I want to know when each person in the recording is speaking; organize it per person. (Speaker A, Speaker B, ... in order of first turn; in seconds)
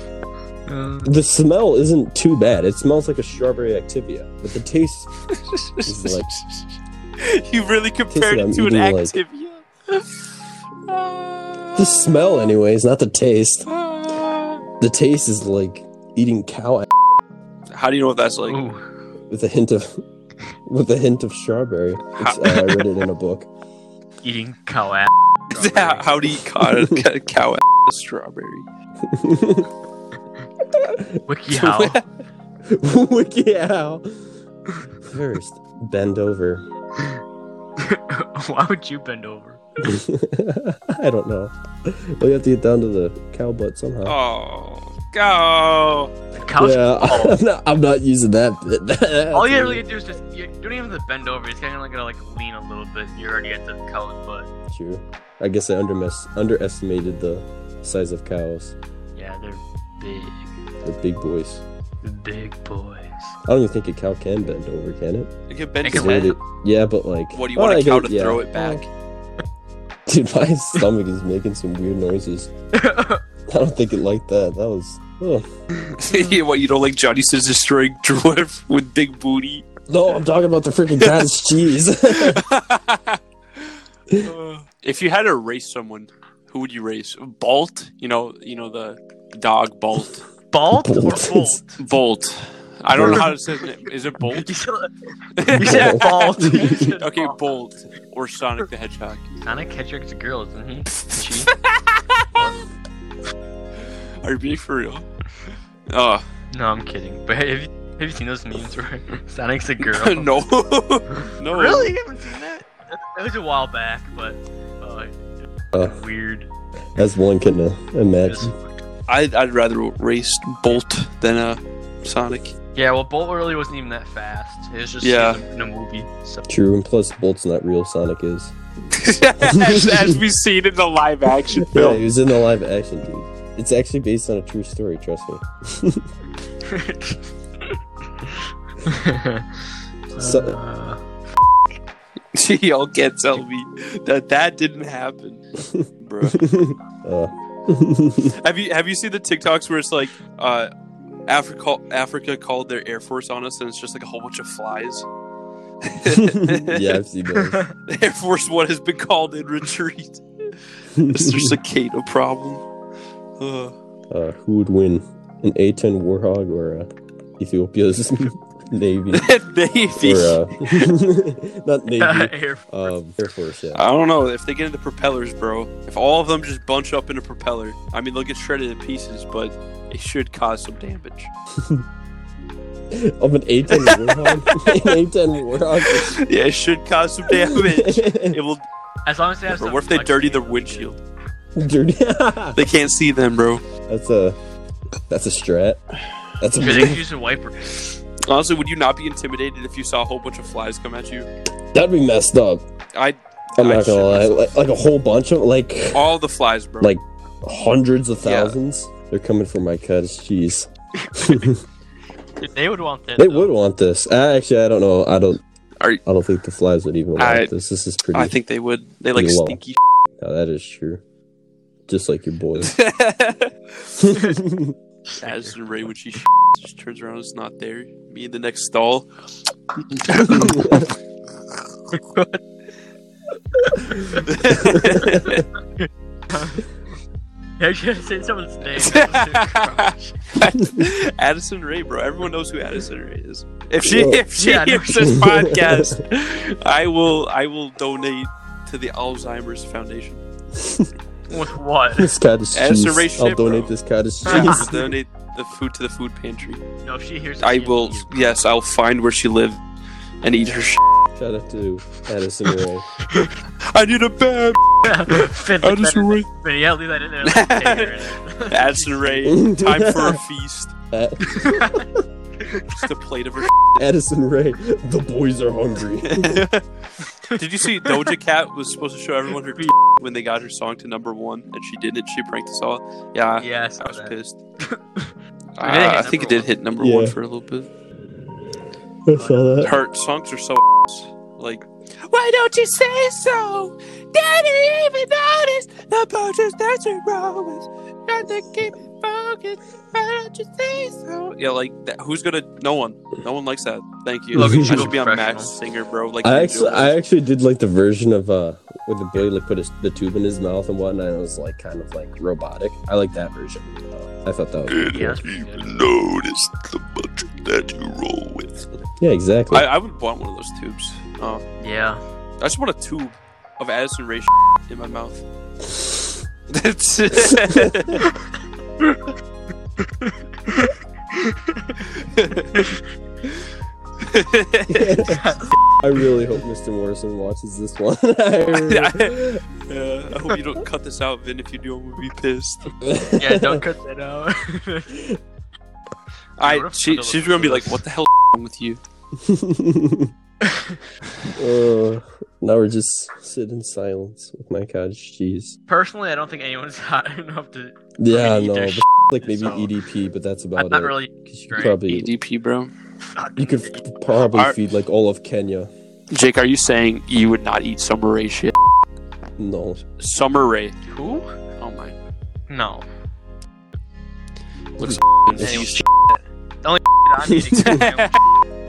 Speaker A: 0.7-1.1, 18.5-18.8, 24.2-26.2, 31.3-32.0, 37.8-39.6, 46.3-47.4, 49.3-54.5, 59.1-60.5, 62.0-63.4, 65.8-66.3, 72.7-73.2, 90.5-91.8, 93.0-93.3, 94.2-94.9, 95.5-97.4, 99.4-101.5, 106.5-110.4, 111.1-115.2, 115.7-116.5, 118.2-118.8, 122.7-126.5, 136.6-137.7, 138.8-139.5, 140.2-141.0, 172.0-172.9, 189.1-190.9, 196.6-197.7, 211.1-211.5, 212.4-213.5, 230.2-230.6, 231.9-232.4, 233.6-234.3, 234.8-236.7, 237.6-240.2, 244.3-245.3, 251.3-252.1, 254.3-254.6, 256.8-258.3, 264.8-269.4, 271.2-271.9, 277.3-278.1, 283.4-286.5, 289.1-289.4, 304.3-305.5, 314.9-315.8, 321.6-322.0, 330.0-331.8, 335.0-335.6, 343.2-345.0, 346.4-347.8, 350.4-350.8, 355.7-359.7, 360.6-361.8, 363.1-363.7, 370.9-371.3, 372.5-372.8, 375.4-378.1
Speaker B: 1.0-5.1, 5.8-6.3, 8.1-9.2, 11.7-13.7, 14.8-16.9, 19.3-20.0, 20.6-23.5, 26.6-27.0, 29.0-29.7, 30.7-31.2, 32.6-34.4, 35.0-36.6, 39.8-44.2, 46.5-49.8, 54.7-58.7, 60.8-61.6, 63.5-65.3, 65.9-68.8, 70.0-72.5, 73.5-75.5, 79.9-82.4, 90.8-91.6, 92.9-93.3, 95.5-96.9, 115.7-116.0, 117.0-118.5, 126.5-128.5, 129.4-130.2, 131.7-136.1, 140.2-140.6, 145.7-148.3, 156.1-157.6, 160.9-161.5, 164.1-169.3, 170.0-173.8, 181.5-181.8, 182.9-186.2, 187.3-188.4, 191.6-192.6, 193.9-194.4, 195.1-195.8, 196.4-197.0, 201.7-202.6, 203.6-206.1, 206.8-211.6, 213.2-215.4, 216.1-218.3, 219.1-219.6, 220.2-221.0, 221.9-222.8, 224.0-224.8, 230.3-230.8, 234.5-235.3, 243.8-244.2, 245.0-246.0, 250.5-250.9, 252.0-254.9, 261.1-262.9, 269.2-270.2, 270.9-271.8, 273.8-276.4, 286.8-287.1, 289.1-289.8, 304.3-304.9, 306.2-315.1, 319.0-319.7, 325.8-326.0, 327.3-327.7, 334.7-339.4, 342.8-343.6, 344.9-345.2, 349.1-350.1, 351.4-355.6, 358.0-362.1, 363.4-365.7, 369.4-369.8, 374.8-375.7
Speaker C: 5.4-10.2, 10.9-12.2, 13.7-14.6, 17.7-18.6, 22.2-23.0, 25.5-28.6, 31.5-32.0, 44.0-46.1, 65.5-66.3, 67.3-68.9, 76.0-79.6, 81.0-81.2, 82.0-83.7, 84.2-90.3, 91.8-94.5, 95.4-99.3, 101.5-102.5, 103.8-105.1, 105.9-106.2, 109.8-111.9, 119.1-122.5, 125.0-125.4, 128.9-132.0, 142.3-145.4, 146.0-146.4, 148.4-150.7, 151.3-155.1, 155.8-157.0, 157.9-160.2, 161.0-162.6, 163.4-163.7, 169.1-170.9, 173.7-181.3, 183.7-185.0, 185.8-188.6, 189.5-191.0, 192.6-193.6, 198.2-201.3, 202.9-204.5, 205.9-206.9, 208.2-208.6, 217.2-217.5, 218.1-219.8, 222.6-223.9, 225.2-229.1, 230.0-230.9, 234.2-235.4, 238.7-250.2, 252.5-253.7, 254.2-256.6, 257.4-259.6, 260.2-260.8, 263.1-266.3, 267.2-270.7, 272.6-273.8, 276.0-276.6, 277.3-284.4, 285.6-287.7, 289.6-307.0, 314.7-318.6, 319.5-321.4, 322.4-325.2, 326.5-328.1, 331.9-332.5, 334.0-335.0, 338.5-342.7, 346.4-348.8, 361.8-362.7, 364.3-364.6, 366.1-368.5, 370.0-370.8, 371.6-372.0, 374.8-375.8, 377.5-378.2